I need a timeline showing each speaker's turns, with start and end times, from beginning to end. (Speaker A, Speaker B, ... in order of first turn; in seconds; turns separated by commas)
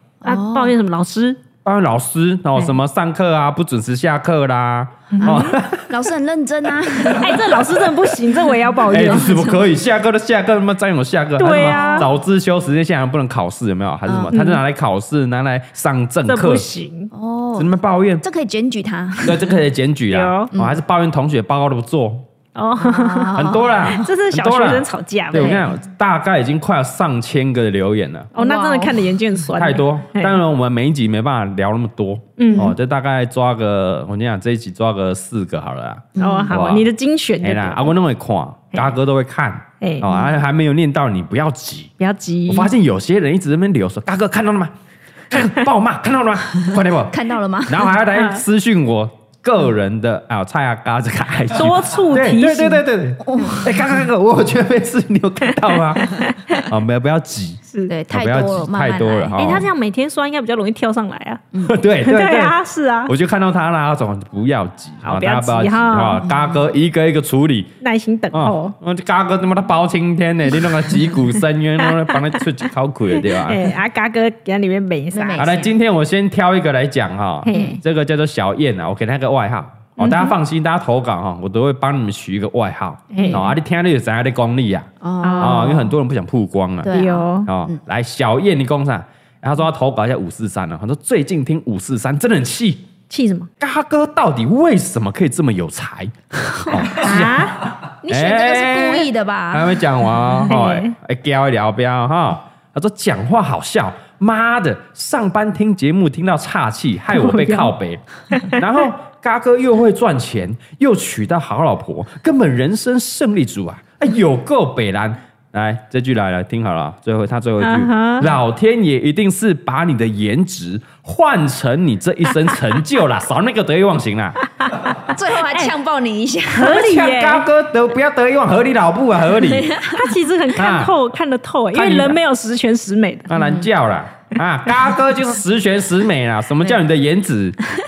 Speaker A: 0.2-0.7, Speaker B: 0.2-1.4, Speaker C: 1.6-5.9, Speaker B: 5.1-5.5, Speaker A: 5.2-7.7, Speaker C: 7.0-7.8, Speaker B: 7.1-9.3, Speaker A: 8.8-9.7, Speaker C: 8.8-16.7, Speaker B: 11.4-12.1, Speaker A: 11.5-12.1, Speaker A: 14.1-14.3, Speaker B: 14.3-14.6, Speaker B: 16.2-17.1, Speaker A: 17.1-19.6, Speaker C: 17.6-18.2, Speaker C: 19.2-22.2, Speaker B: 20.1-20.5, Speaker A: 20.5-20.8, Speaker B: 22.5-23.4, Speaker A: 22.8-24.1, Speaker C: 23.3-28.3, Speaker B: 23.9-25.6, Speaker A: 25.3-25.6, Speaker B: 28.3-30.4, Speaker A: 28.4-29.0, Speaker C: 29.5-36.9, Speaker B: 32.4-32.7, Speaker A: 36.1-36.5, Speaker B: 36.2-37.9, Speaker C: 37.4-41.9, Speaker B: 39.8-40.1, Speaker B: 42.0-42.7, Speaker C: 42.5-44.7, Speaker C: 45.3-47.1, Speaker A: 47.1-47.9, Speaker C: 47.7-59.7, Speaker B: 48.1-48.4, Speaker B: 51.5-52.8, Speaker A: 53.2-53.7, Speaker B: 56.0-56.6, Speaker A: 57.9-59.4, Speaker B: 59.4-61.4, Speaker C: 61.6-67.7, Speaker B: 62.0-63.1, Speaker B: 65.0-66.2, Speaker A: 66.2-66.6, Speaker B: 67.8-68.7, Speaker C: 68.3-73.7, Speaker B: 71.8-72.3, Speaker B: 73.2-75.4, Speaker A: 75.1-75.7, Speaker C: 75.4-84.9, Speaker B: 77.4-77.8, Speaker A: 77.5-77.8, Speaker B: 80.0-80.3, Speaker B: 83.1-83.5, Speaker A: 83.2-83.5, Speaker A: 85.0-85.9, Speaker B: 85.2-85.8, Speaker C: 85.4-92.8, Speaker A: 86.8-87.8, Speaker B: 86.9-87.5, Speaker B: 93.1-93.5, Speaker C: 93.6-124.4, Speaker A: 96.5-96.8, Speaker B: 96.9-97.7, Speaker A: 98.0-99.8, Speaker B: 100.5-100.9, Speaker B: 107.1-107.7, Speaker B: 108.3-108.6, Speaker B: 117.6-118.3, Speaker A: 125.1-126.8, Speaker B: 126.5-127.5, Speaker C: 126.6-129.7, Speaker A: 129.4-130.1, Speaker B: 129.9-133.3, Speaker C: 130.5-130.9, Speaker C: 131.7-132.2, Speaker C: 133.3-137.6, Speaker A: 133.4-133.7